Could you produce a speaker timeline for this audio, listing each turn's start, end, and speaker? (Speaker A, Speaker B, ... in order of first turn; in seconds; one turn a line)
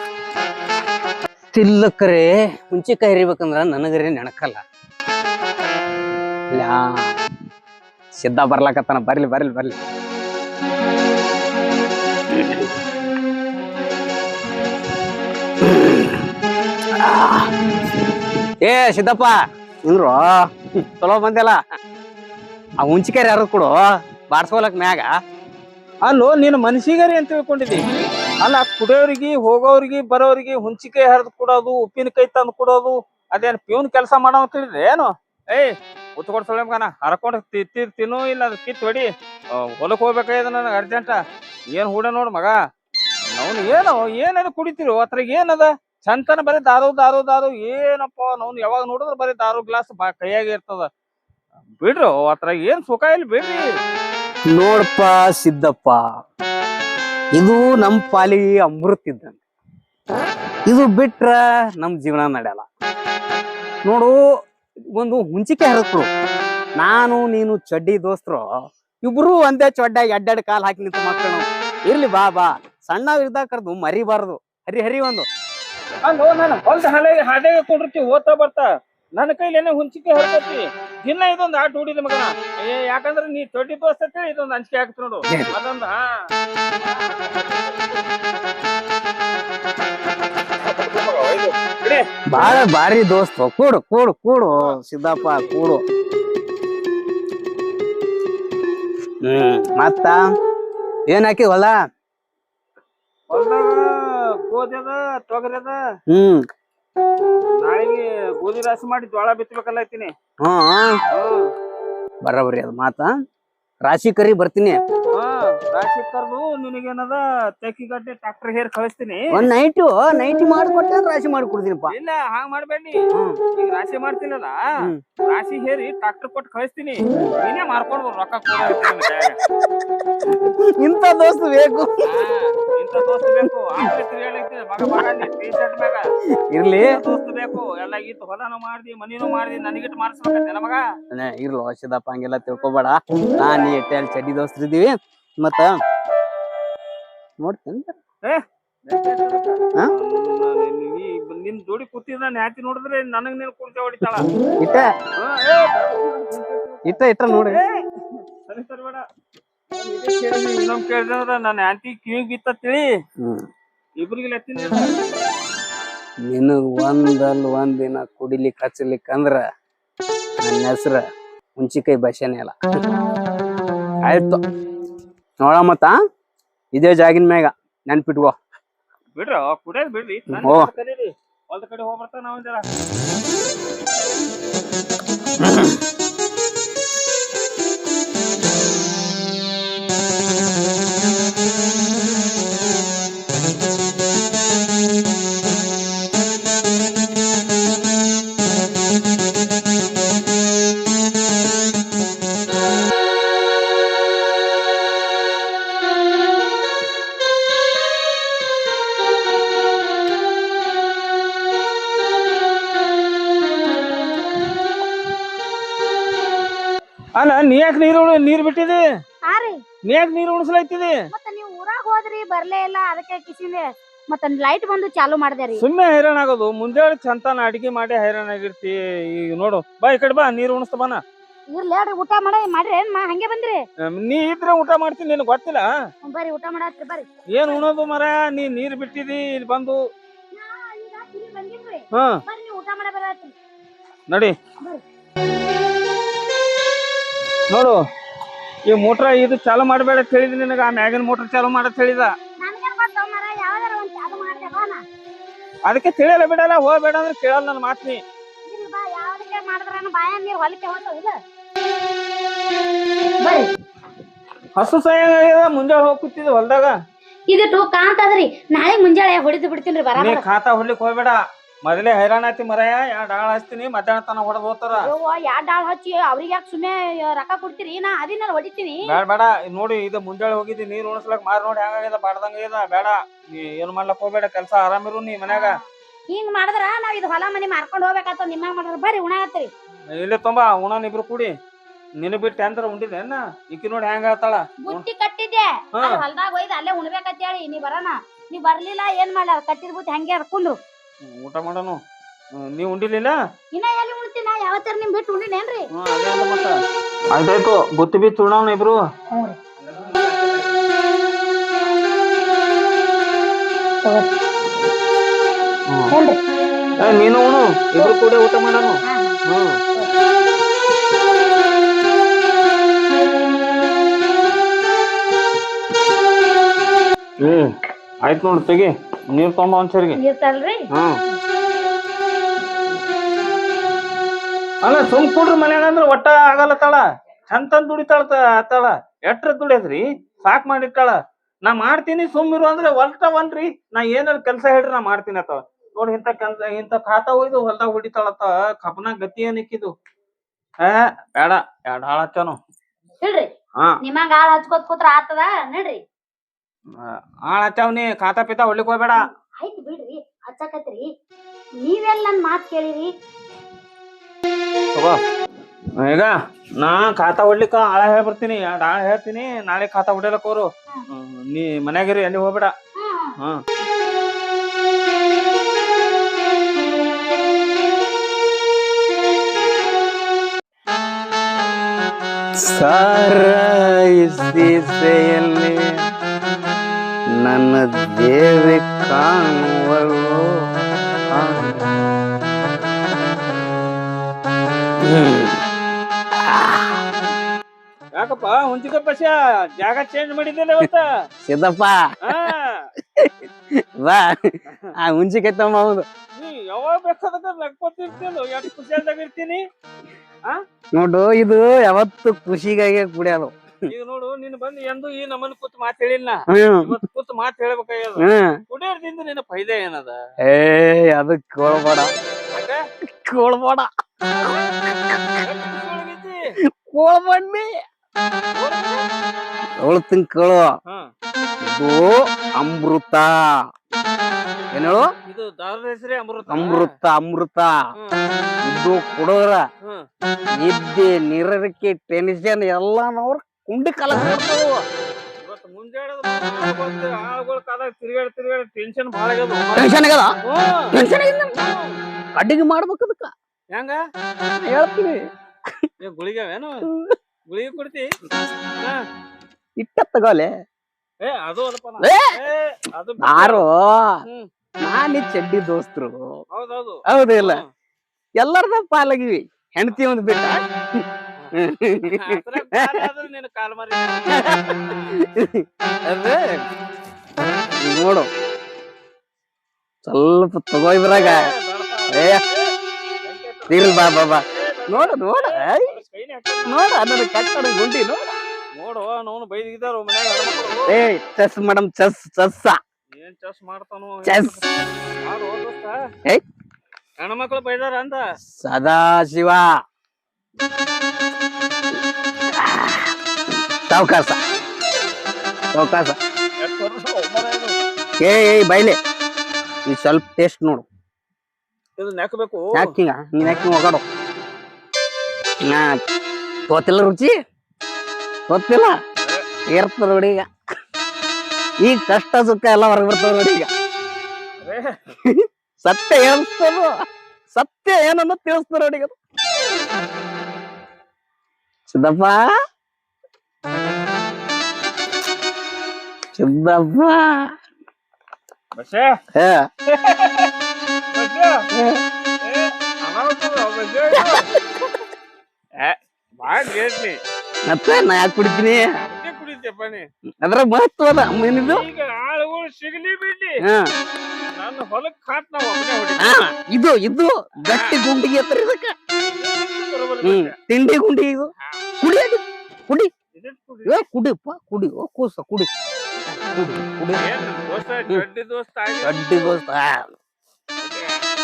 Speaker A: 1.5-4.6
Speaker A: 6.5-7.1
Speaker A: 8.2-9.8
Speaker A: 12.3-12.7
Speaker A: 15.6-16.2
Speaker A: 16.9-17.5
Speaker A: 18.6-21.6
Speaker A: 22.8-23.7
Speaker A: 24.3-25.1
Speaker B: 26.0-27.8
Speaker B: 28.4-41.2
Speaker B: 41.7-42.5
Speaker B: 43.3-50.9
Speaker B: 51.8-53.6
Speaker A: 54.5-56.0
Speaker A: 57.4-59.4
Speaker A: 60.7-62.6
Speaker A: 63.9-64.2
Speaker A: 64.9-66.1
Speaker A: 66.8-68.4
Speaker A: 69.0-75.3
Speaker B: 76.0-86.1
Speaker A: 85.3-85.5
Speaker B: 86.9-87.9
Speaker B: 90.6-92.0
Speaker A: 92.3-95.8
Speaker B: 94.6-95.5
Speaker A: 99.2-100.2
Speaker A: 101.1-101.7
Speaker B: 103.3-105.8
Speaker A: 106.1-106.4
Speaker B: 107.6-110.1
Speaker A: 110.4-111.0
Speaker B: 111.1-111.5
Speaker A: 112.2-113.1
Speaker A: 113.8-114.8
Speaker B: 115.1-119.5
Speaker A: 119.3-121.9
Speaker B: 121.9-123.0
Speaker B: 123.6-124.6
Speaker B: 125.3-129.4
Speaker A: 130.2-131.9
Speaker B: 132.0-136.1
Speaker A: 136.5-137.0
Speaker B: 136.8-140.8
Speaker A: 141.1-145.8
Speaker A: 147.4-147.9
Speaker B: 148.2-154.3
Speaker A: 154.6-154.9
Speaker B: 155.2-159.0
Speaker A: 156.8-157.6
Speaker B: 159.8-162.9
Speaker A: 163.2-163.4
Speaker B: 164.0-165.0
Speaker A: 166.2-169.4
Speaker A: 170.4-171.0
Speaker A: 171.6-172.5
Speaker A: 174.0-174.4
Speaker A: 175.4-176.0
Speaker A: 176.7-178.4
Speaker B: 179.2-182.7
Speaker A: 180.4-180.7
Speaker A: 185.4-185.8
Speaker B: 217.2-218.8
Speaker C: 219.2-219.6
Speaker B: 219.9-221.0
Speaker C: 221.1-225.6
Speaker B: 225.6-231.0
Speaker C: 231.5-233.6
Speaker B: 233.8-235.7
Speaker C: 236.0-237.1
Speaker B: 237.3-239.8
Speaker C: 240.3-243.3
Speaker B: 241.9-242.2
Speaker B: 247.5-247.8
Speaker B: 248.7-252.1
Speaker C: 252.4-254.8
Speaker B: 255.7-258.0
Speaker C: 258.5-261.1
Speaker C: 263.2-263.5
Speaker B: 264.6-266.7
Speaker C: 267.3-270.2
Speaker B: 270.0-274.9
Speaker C: 274.8-278.9
Speaker B: 278.9-285.5
Speaker C: 285.3-289.5
Speaker B: 289.9-291.3
Speaker B: 292.0-294.8
Speaker C: 294.6-300.6
Speaker B: 301.0-301.8
Speaker B: 302.4-303.2
Speaker C: 303.5-305.7
Speaker B: 305.7-306.5
Speaker B: 307.1-308.8
Speaker C: 309.1-309.4
Speaker B: 309.6-310.5
Speaker C: 313.8-314.1
Speaker C: 315.9-316.2
Speaker B: 316.8-319.6
Speaker C: 318.9-319.1
Speaker B: 327.2-327.5
Speaker B: 328.0-330.0
Speaker C: 330.0-330.6
Speaker B: 334.6-349.7
Speaker B: 350.6-352.4
Speaker C: 353.0-353.3
Speaker C: 353.8-355.8
Speaker B: 356.8-359.0
Speaker C: 359.4-360.9
Speaker C: 361.6-362.9
Speaker B: 365.8-372.5
Speaker C: 372.8-373.1
Speaker A: 382.4-385.8
Speaker A: 387.1-390.3
Speaker A: 391.1-391.6
Speaker A: 394.8-395.4
Speaker A: 396.1-396.8
Speaker B: 397.9-400.9
Speaker A: 401.2-402.3
Speaker B: 402.0-402.7
Speaker A: 402.9-405.8
Speaker B: 406.1-409.4
Speaker A: 410.7-413.7
Speaker B: 413.7-420.0
Speaker A: 416.3-416.8
Speaker A: 418.0-418.4
Speaker A: 420.2-421.9
Speaker B: 422.3-422.6
Speaker A: 422.9-423.7
Speaker B: 424.1-424.5
Speaker A: 424.2-425.2
Speaker B: 425.2-426.2
Speaker A: 426.5-427.5
Speaker B: 428.4-428.8
Speaker A: 429.6-430.5
Speaker A: 431.4-433.2
Speaker A: 434.5-434.9
Speaker B: 435.0-436.7
Speaker A: 436.3-437.5
Speaker B: 437.7-438.1
Speaker A: 438.4-439.4
Speaker A: 440.4-444.6
Speaker B: 445.2-450.7
Speaker A: 449.6-450.1
Speaker A: 450.7-451.4
Speaker B: 451.3-451.7
Speaker A: 452.1-453.1
Speaker B: 453.5-453.8
Speaker A: 454.4-455.0
Speaker B: 455.8-456.7
Speaker A: 456.6-457.0
Speaker B: 457.3-457.9
Speaker A: 459.6-460.3
Speaker B: 461.0-463.4
Speaker A: 461.8-462.1
Speaker A: 463.0-464.0
Speaker A: 464.6-466.2
Speaker B: 466.3-467.4
Speaker A: 466.9-467.4
Speaker A: 468.2-472.9
Speaker B: 471.2-474.4
Speaker A: 474.1-476.4
Speaker A: 477.6-478.1
Speaker A: 479.8-481.3
Speaker B: 480.9-482.5
Speaker A: 481.9-482.2
Speaker B: 483.0-483.8
Speaker A: 483.5-485.7
Speaker B: 484.3-486.6
Speaker A: 486.5-488.1
Speaker B: 488.6-490.8
Speaker A: 490.7-492.6
Speaker B: 492.9-494.5
Speaker A: 494.0-494.4
Speaker B: 495.0-495.8
Speaker B: 497.0-498.0
Speaker A: 498.4-499.4
Speaker A: 502.3-502.9
Speaker A: 503.7-504.2
Speaker A: 505.5-505.9
Speaker B: 506.4-507.5
Speaker A: 508.0-508.8
Speaker A: 509.7-510.6
Speaker B: 511.8-512.7
Speaker A: 512.5-513.8
Speaker A: 515.4-515.7
Speaker A: 516.5-517.1
Speaker A: 518.3-518.8
Speaker A: 519.5-520.3
Speaker A: 521.6-523.5
Speaker B: 524.4-524.8
Speaker A: 525.0-526.7
Speaker A: 527.3-528.9
Speaker A: 531.7-532.2
Speaker A: 536.1-537.3
Speaker B: 538.5-538.9
Speaker A: 539.1-539.5
Speaker B: 539.7-540.3
Speaker B: 540.9-541.3
Speaker A: 541.5-541.8
Speaker B: 542.2-544.3
Speaker A: 543.9-544.8
Speaker B: 545.6-547.0
Speaker A: 547.5-548.7
Speaker B: 548.8-549.9
Speaker A: 550.2-551.6
Speaker B: 551.4-553.4
Speaker A: 553.4-553.7
Speaker B: 554.3-556.1
Speaker A: 556.0-558.7
Speaker B: 557.5-557.8
Speaker B: 559.0-560.3
Speaker A: 560.0-562.9
Speaker B: 563.1-563.8
Speaker A: 563.6-565.5
Speaker A: 566.3-567.0
Speaker B: 567.0-569.3
Speaker A: 568.8-569.9
Speaker B: 570.6-570.9